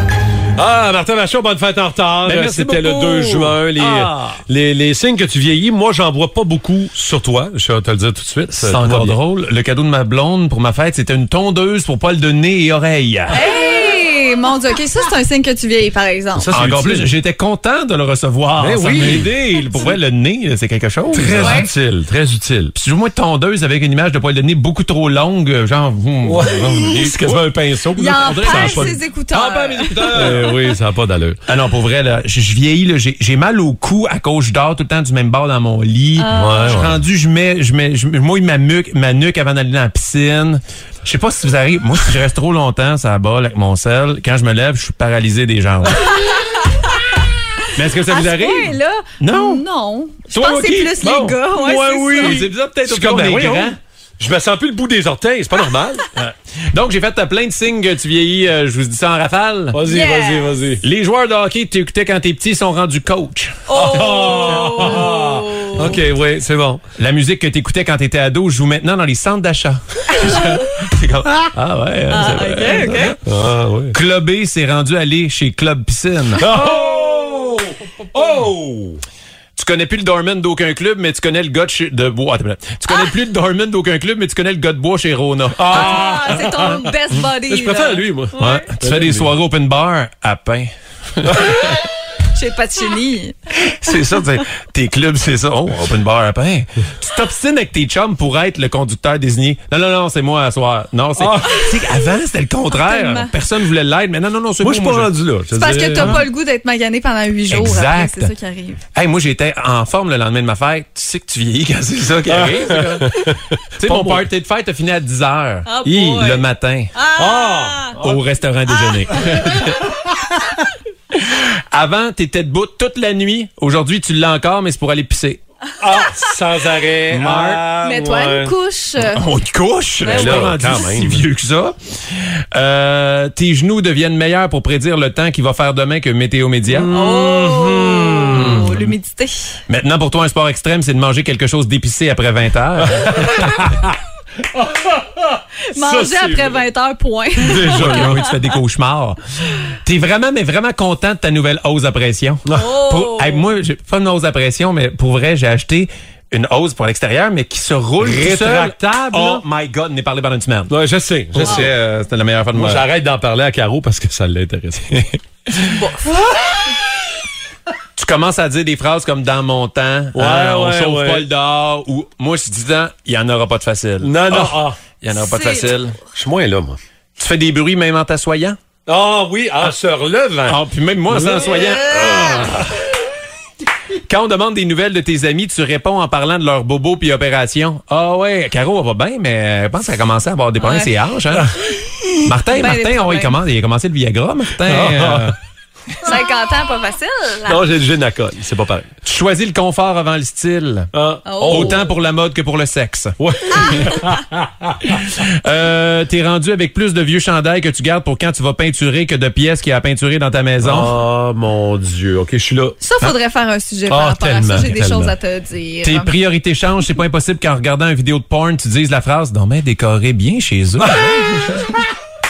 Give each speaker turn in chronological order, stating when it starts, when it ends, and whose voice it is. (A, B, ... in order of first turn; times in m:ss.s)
0:00.6-0:09.2 A
0:02.2-0:04.4 B
0:08.5-0:13.4 B
0:13.3-0:16.5 C
0:16.3-0:17.1 A
0:16.5-0:21.7 B
0:18.6-0:19.3 A
0:19.6-0:19.9 C
0:21.1-0:22.7 A
0:21.4-0:21.7 C
0:22.7-0:27.4 B
0:26.2-0:31.4 A
0:28.0-0:30.8 C
0:28.1-0:29.0 B
0:29.8-0:30.4 B
0:31.5-0:46.2 B
0:36.2-0:36.9 C
0:36.3-0:37.0 A
0:46.0-0:47.1 C
0:47.7-0:49.6 B
0:48.0-0:52.4 C
0:50.3-0:51.3 B
0:51.0-0:56.1 A
0:52.1-0:53.8 B
0:56.1-0:59.9 B
0:59.7-1:00.8 A
0:59.8-1:00.7 C
1:00.8-1:04.7 B
1:03.7-1:06.0 C
1:03.7-1:06.8 A
1:07.0-1:13.2 B
1:12.1-1:13.2 C
1:13.2-1:14.0 A
1:13.9-1:16.5 B
1:16.4-1:19.0 A
1:19.6-1:26.1 B
1:25.6-1:29.3 A
1:25.7-1:28.7 C
1:28.4-1:31.9 B
1:32.3-1:33.4 C
1:33.6-1:45.1 B
1:41.2-1:41.8 A
1:42.7-1:43.3 C
1:44.6-1:46.3 A
1:45.5-1:48.8 C
1:47.5-1:48.3 B
1:48.9-1:53.1 B
1:52.3-1:54.2 A
1:53.8-1:56.9 B
1:55.7-1:58.0 C
1:55.8-1:56.2 A
1:57.2-1:58.1 A
1:58.0-1:59.9 B
2:01.1-2:05.4 B
2:05.8-2:08.6 A
2:07.1-2:07.6 B
2:07.8-2:09.2 C
2:09.0-2:17.0 B
2:10.0-2:10.9 C
2:10.0-2:11.3 A
2:16.7-2:18.8 A
2:16.9-2:19.6 C
2:18.3-2:18.9 B
2:19.7-2:23.8 B
2:23.0-2:23.9 A
2:24.5-2:26.6 A
2:25.7-2:28.3 C
2:27.4-2:28.2 A
2:27.7-2:40.7 B
2:32.5-2:33.5 C
2:38.0-2:39.4 A
2:40.7-2:41.7 A
2:41.3-2:42.9 B
2:42.5-2:45.2 A
2:45.7-2:46.3 C
2:48.0-2:56.0 B
2:50.1-2:51.3 A
2:54.0-2:54.8 A
2:55.2-2:55.7 C
2:56.2-2:56.8 A
2:57.2-2:58.6 B
2:58.9-3:02.5 A
3:00.5-3:02.7 B
3:04.0-3:11.5 B
3:10.6-3:10.9 C
3:12.2-3:15.4 B
3:12.5-3:13.4 C
3:14.6-3:15.3 A
3:16.0-3:17.7 C
3:17.5-3:18.9 A
3:19.0-3:23.2 B
3:20.9-3:21.8 A
3:21.3-3:21.9 C
3:23.2-3:24.8 A
3:24.9-3:30.9 B
3:30.6-3:32.8 A
3:32.8-3:36.2 C
3:33.9-3:35.1 A
3:35.8-3:41.7 B
3:40.8-3:41.8 A